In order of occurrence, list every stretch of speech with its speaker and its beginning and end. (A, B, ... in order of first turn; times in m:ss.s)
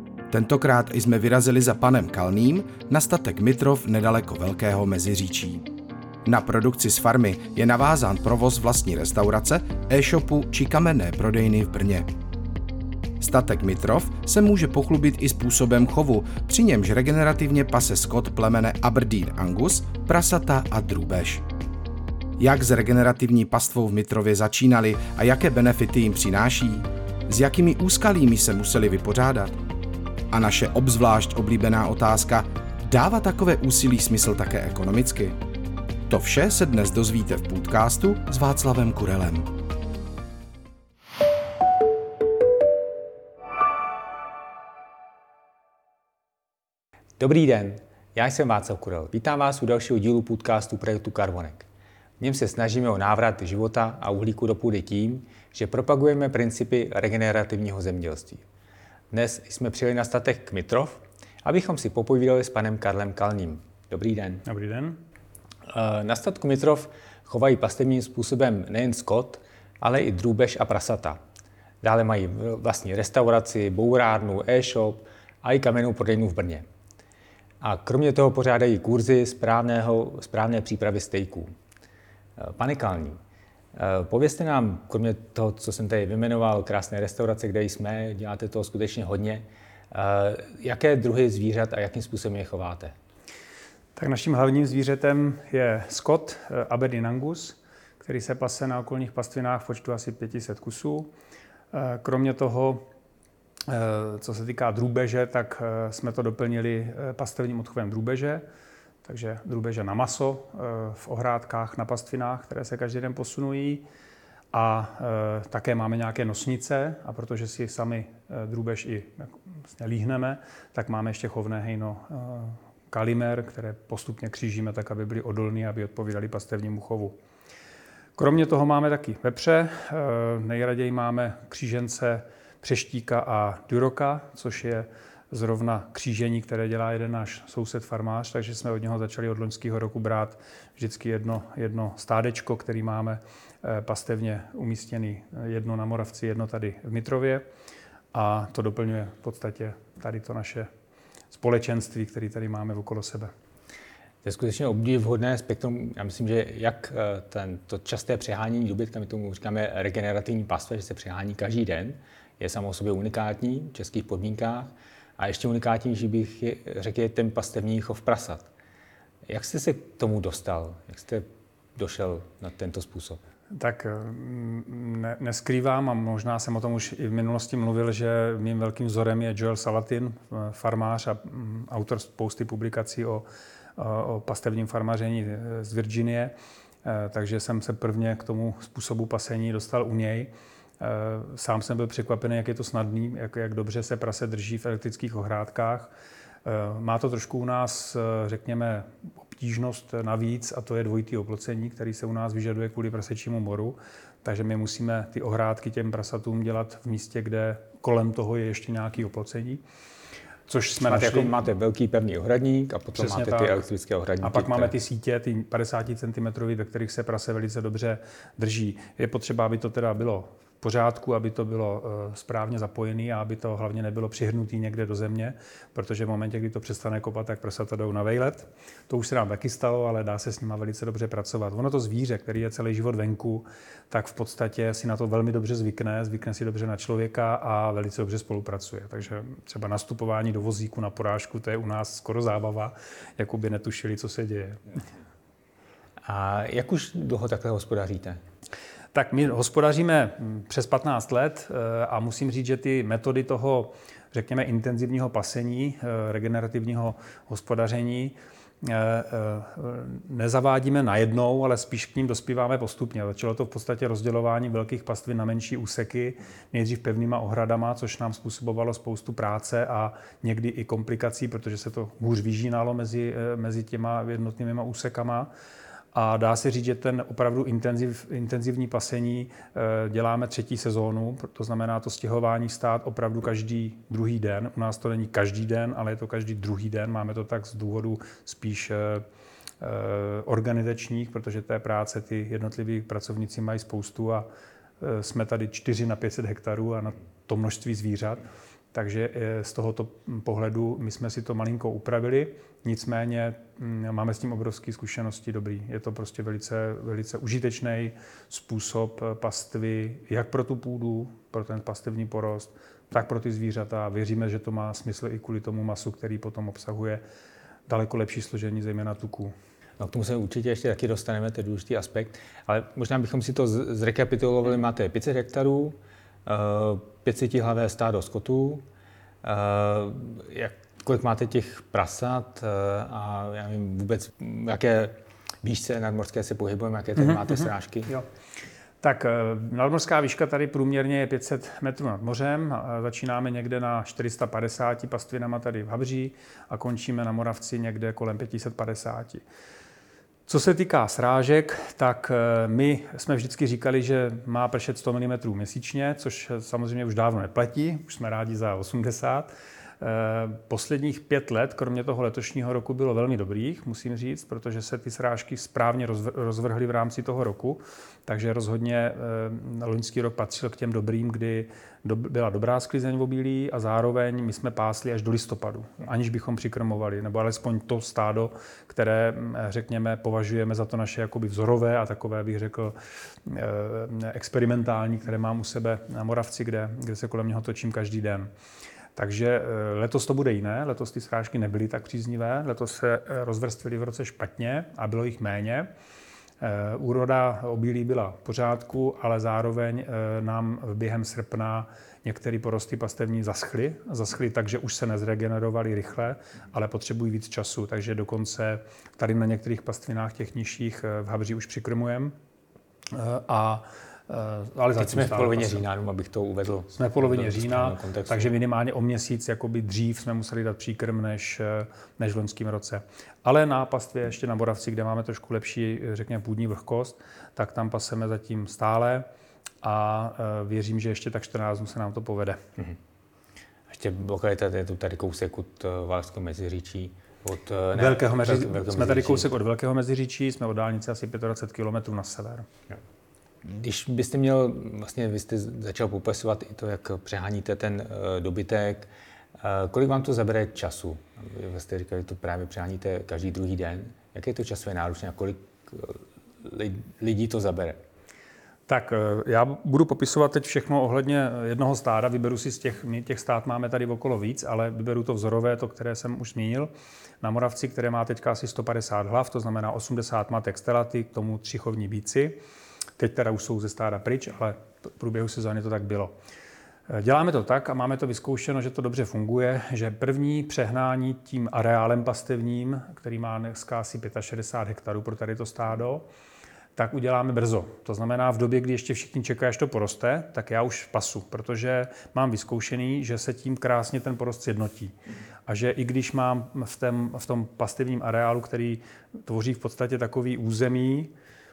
0:00.3-0:05.6 A
0:06.2-0:12.1 A
0:13.2-0:21.4 A
0:22.4-0:29.6 A
0:30.3-0:35.4 A
0:36.1-0:39.5 A
0:47.2-0:51.7 B
0:52.2-0:58.4 B
0:59.1-1:04.4 B
1:04.4-1:05.0 C
1:05.7-1:11.2 B
1:11.8-1:16.6 B
1:17.6-1:21.5 B
1:22.4-1:23.2 B
1:23.7-1:32.9 B
1:34.0-1:41.1 C
1:41.7-1:42.8 C
1:43.7-1:48.4 C
1:49.0-1:53.8 C
1:54.5-2:07.2 C
2:08.2-2:27.4 C
2:28.1-2:30.7 C
2:31.3-2:33.3 C
2:34.2-2:48.5 B
2:49.2-2:53.2 B
2:53.5-3:03.2 C
3:03.8-3:15.9 C
3:16.4-3:29.6 C
3:30.5-3:31.3 C
3:30.8-3:34.7 B
3:32.9-3:33.6 C
3:34.2-4:04.6 C
4:06.0-4:08.2 B
4:08.9-4:35.3 C
4:35.9-4:49.0 C
4:49.6-4:54.3 C
4:54.8-5:17.0 C
5:17.7-5:19.3 C
5:19.8-5:28.6 B
5:29.2-5:37.9 B
5:38.8-5:49.2 C
5:50.3-6:28.3 C
6:28.9-6:35.7 C
6:36.4-6:52.1 C
6:52.9-6:55.6 C
6:54.8-6:58.3 B
6:56.7-7:09.0 C
7:09.6-7:12.4 C
7:13.7-7:19.3 B
7:17.7-7:22.5 C
7:23.4-7:37.8 B
7:38.7-7:46.7 C
7:47.2-7:52.4 C
7:53.0-7:56.1 C
7:56.9-8:06.0 C
8:06.8-8:14.9 C
8:15.5-8:21.1 C